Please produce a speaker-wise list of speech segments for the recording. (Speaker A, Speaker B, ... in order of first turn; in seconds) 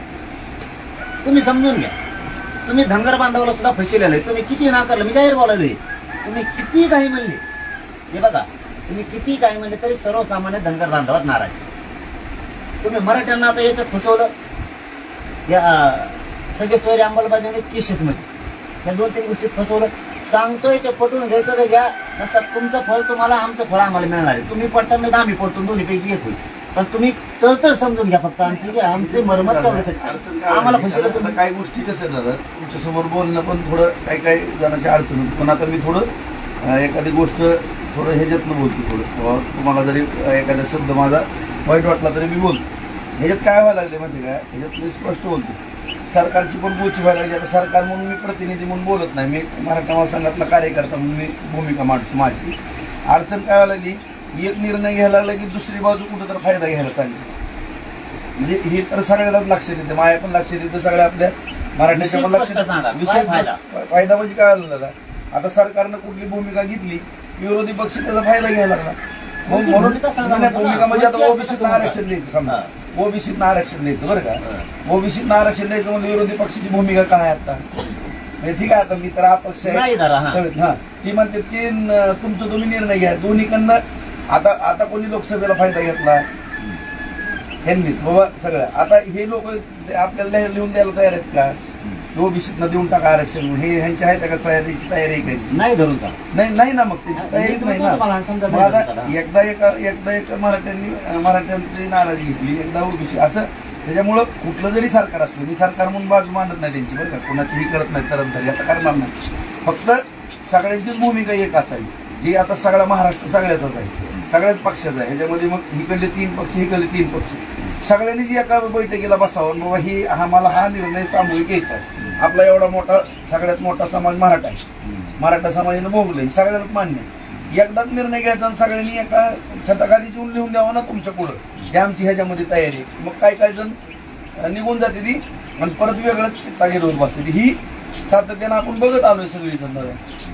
Speaker A: 1.2-1.9, 2.7-7.4, 8.1-11.6, 12.8-14.3, 15.5-18.3, 18.8-31.4, 61.9-63.6, 69.5-72.7, 79.6-80.4, 95.5-96.2, 97.2-99.2, 124.8-125.1
Speaker B: 28.4-36.1, 36.6-42.6, 43.2-52.5, 53.1-57.3, 58.4-77.6, 78.4-86.3, 87.6-91.6, 92.1-95.6, 96.3-124.6, 125.2-133.8, 134.4-140.0